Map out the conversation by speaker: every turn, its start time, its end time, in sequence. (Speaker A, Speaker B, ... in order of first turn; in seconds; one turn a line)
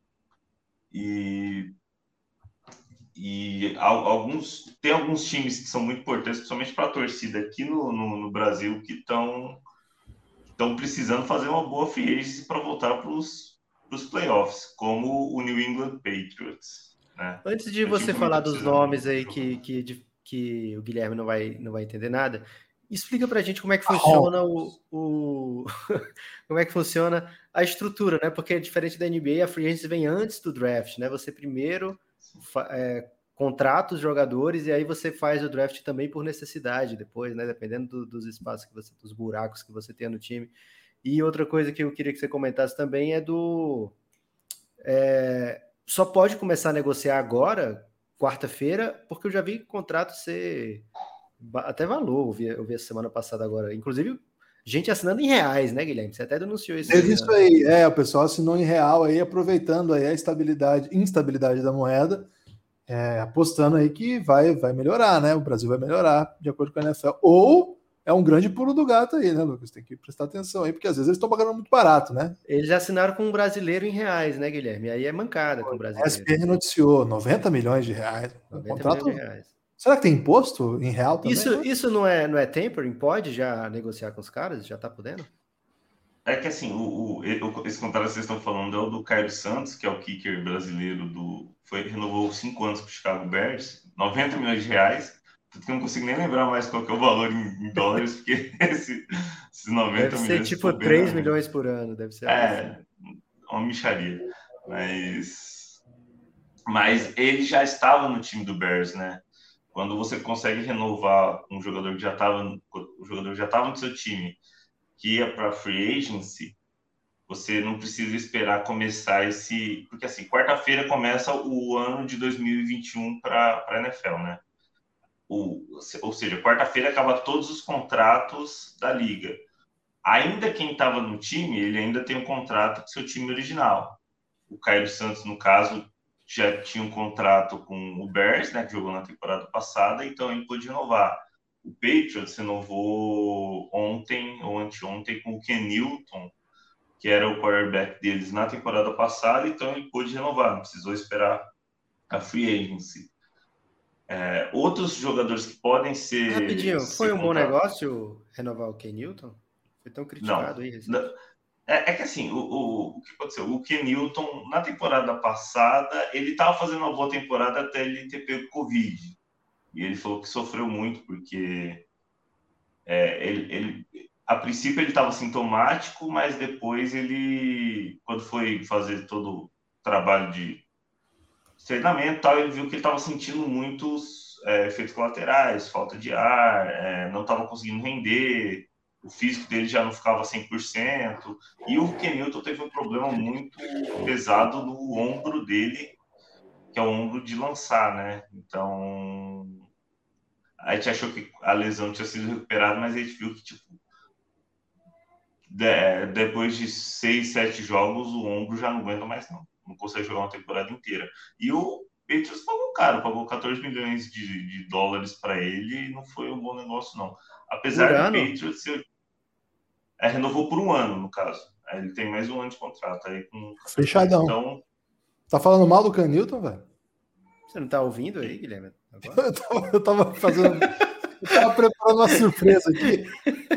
Speaker A: 0.9-1.7
Speaker A: 3.1-9.6
Speaker A: 10.6-19.6
Speaker B: 17.4-43.9
Speaker C: 23.9-24.3
Speaker B: 44.8-50.9
Speaker B: 51.4-57.4
Speaker C: 56.9-62.3
Speaker C: 62.9-72.4
Speaker B: 72.5-76.5
Speaker C: 75.6-79.2
Speaker B: 78.5-79.5
Speaker C: 79.8-81.7
Speaker B: 81.2-85.3
Speaker A: 86.2-101.3
Speaker B: 100.0-102.7
Speaker A: 102.2-102.8
Speaker A: 103.5-105.8
Speaker A: 106.7-114.4
Speaker A: 115.0-116.6
Speaker A: 117.3-124.4
Speaker A: 125.3-129.4
Speaker A: 130.0-146.3
Speaker A: 147.0-151.5
Speaker A: 152.1-153.1
Speaker A: 154.1-157.5
Speaker B: 156.3-161.1
Speaker A: 160.2-161.1
Speaker A: 161.7-169.2
Speaker A: 169.7-171.8
Speaker A: 172.8-180.6
Speaker A: 181.6-195.9
Speaker A: 196.7-199.6
Speaker A: 200.6-203.8
Speaker A: 205.5-218.8
Speaker B: 217.7-218.3
Speaker A: 220.0-224.6
Speaker C: 223.7-224.3
Speaker C: 225.3-226.7
Speaker B: 227.5-229.2
Speaker C: 229.1-233.2
Speaker B: 230.4-230.8